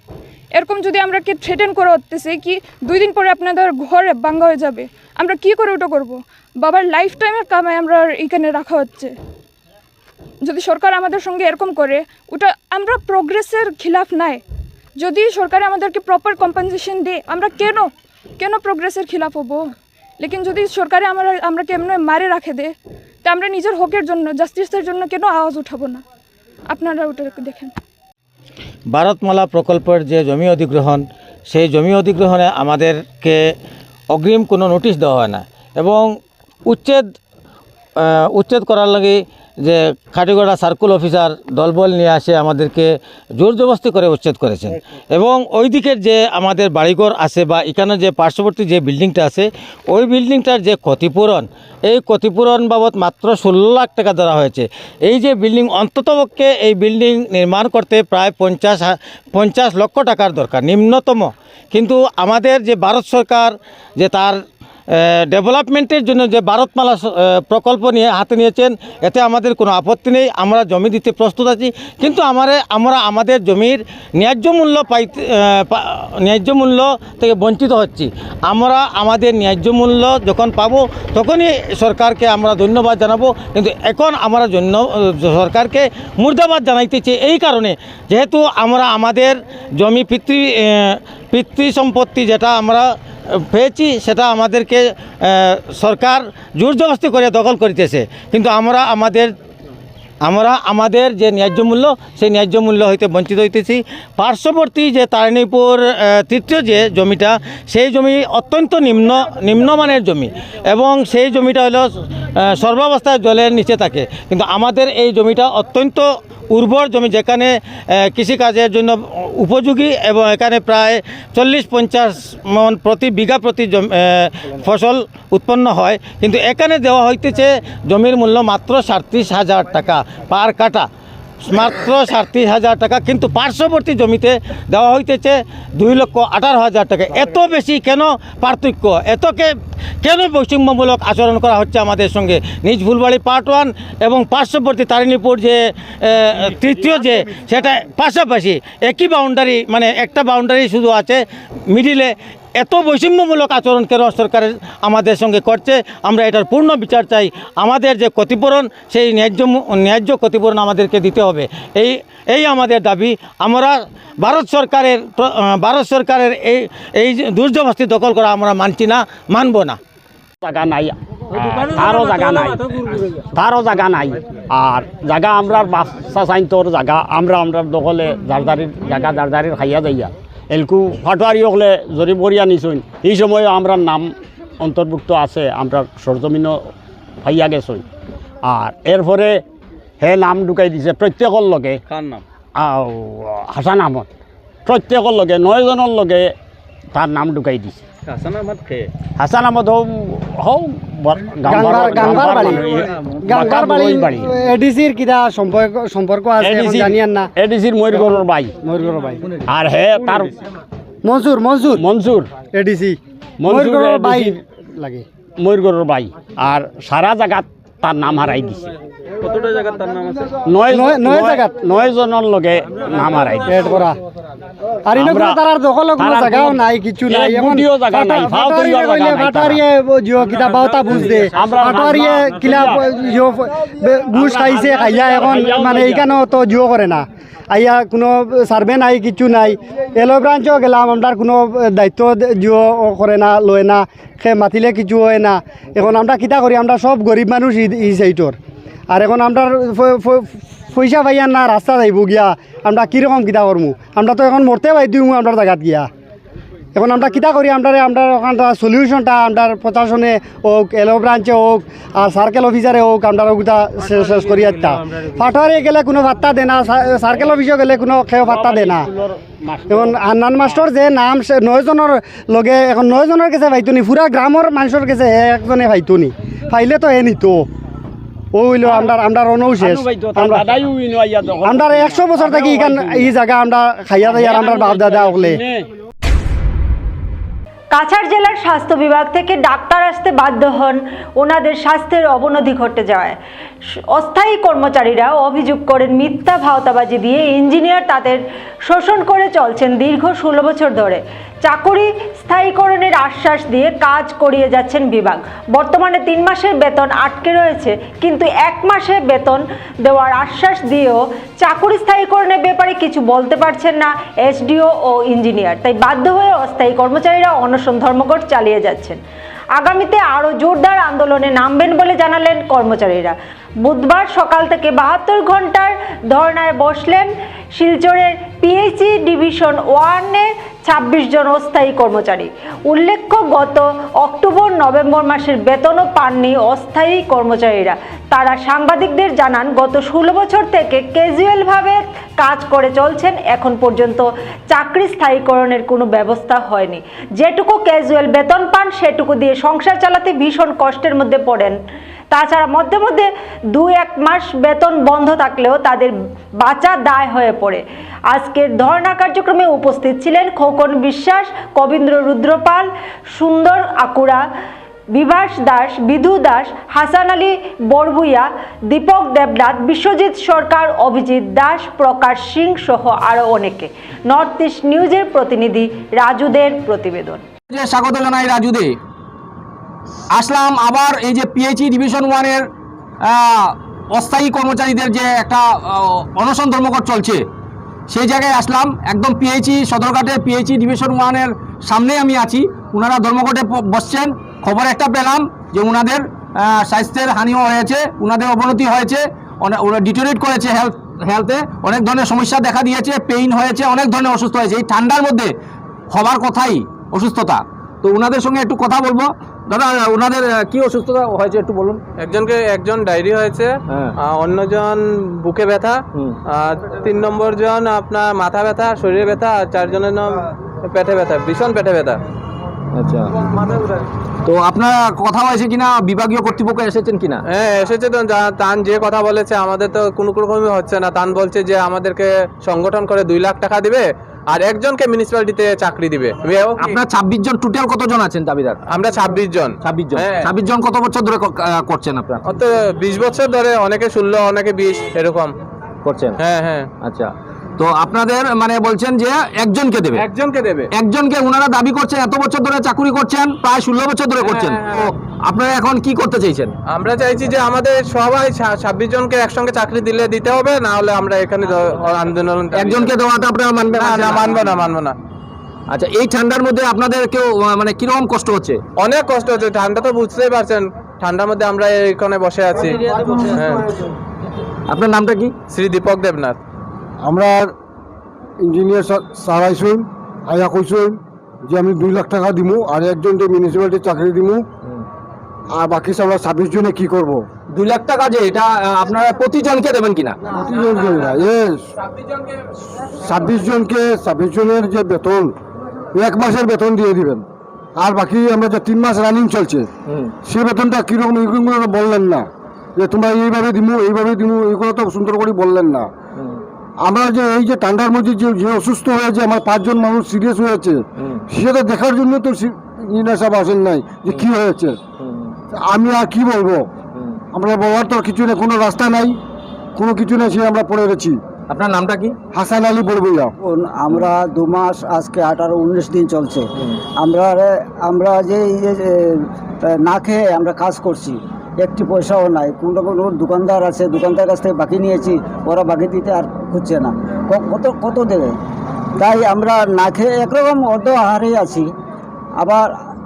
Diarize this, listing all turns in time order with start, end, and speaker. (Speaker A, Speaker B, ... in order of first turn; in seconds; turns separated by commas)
Speaker A: 0.5-9.1, Speaker A: 10.4-14.4, Speaker A: 15.0-26.0, Speaker A: 26.7-27.7, Speaker B: 28.9-33.4, Speaker B: 34.1-36.2, Speaker B: 36.7-37.1, Speaker B: 38.0-64.4, Speaker B: 64.9-99.3, Speaker B: 100.2-130.9, Speaker B: 131.4-169.8, Speaker C: 170.4-186.6, Speaker C: 187.2-187.8, Speaker C: 188.4-189.4, Speaker C: 190.0-194.1, Speaker C: 194.7-196.3, Speaker C: 196.9-204.3, Speaker D: 201.4-207.3, Speaker C: 206.4-208.5, Speaker D: 208.6-209.3, Speaker C: 209.4-210.4, Speaker D: 211.0-211.8, Speaker C: 211.7-212.3, Speaker D: 212.5-215.0, Speaker C: 213.4-214.4, Speaker C: 215.4-223.8, Speaker D: 220.7-221.6, Speaker D: 223.4-224.0, Speaker D: 224.8-248.4, Speaker C: 224.9-225.4, Speaker C: 226.0-229.6, Speaker C: 230.9-232.8, Speaker C: 234.1-236.1, Speaker D: 248.9-255.9, Speaker D: 256.7-268.9, Speaker C: 268.2-270.0, Speaker D: 269.7-277.5, Speaker D: 278.3-280.5, Speaker C: 278.6-278.9, Speaker C: 279.6-283.1, Speaker D: 281.4-285.4, Speaker C: 284.0-285.7, Speaker E: 287.7-293.2, Speaker E: 293.7-319.0, Speaker E: 319.6-351.6, Speaker E: 352.1-364.2, Speaker E: 364.9-377.2, Speaker F: 377.5-378.8, Speaker F: 380.1-382.5, Speaker F: 383.0-387.2, Speaker F: 387.9-405.3, Speaker F: 405.9-411.8, Speaker G: 412.0-422.0, Speaker F: 422.7-423.3, Speaker F: 424.2-427.2, Speaker G: 427.2-436.8, Speaker F: 436.6-438.6, Speaker G: 438.7-440.3, Speaker F: 439.6-442.4, Speaker G: 442.3-445.3, Speaker F: 445.8-446.2, Speaker G: 446.2-446.7, Speaker F: 446.8-450.1, Speaker G: 449.9-450.7, Speaker F: 450.7-456.6, Speaker G: 454.2-454.9, Speaker G: 456.7-462.9, Speaker F: 462.5-464.5, Speaker G: 463.7-464.9, Speaker F: 465.7-468.6, Speaker G: 468.8-473.7, Speaker F: 474.7-475.3, Speaker G: 475.5-476.4, Speaker H: 477.0-477.5, Speaker H: 478.4-481.0, Speaker H: 481.5-484.4, Speaker H: 485.6-487.2, Speaker F: 487.5-490.2, Speaker H: 490.3-491.6, Speaker H: 493.0-495.3, Speaker H: 495.9-497.2, Speaker H: 497.8-499.7, Speaker F: 499.9-500.1, Speaker H: 500.2-505.9, Speaker F: 506.1-506.4, Speaker H: 506.8-514.8, Speaker F: 511.0-511.2, Speaker F: 515.0-515.3, Speaker H: 515.6-516.7, Speaker F: 516.9-517.2, Speaker H: 517.3-519.2, Speaker H: 519.8-521.2, Speaker F: 521.5-522.2, Speaker H: 522.3-523.3, Speaker I: 523.4-538.4, Speaker I: 539.0-541.7, Speaker I: 542.4-542.8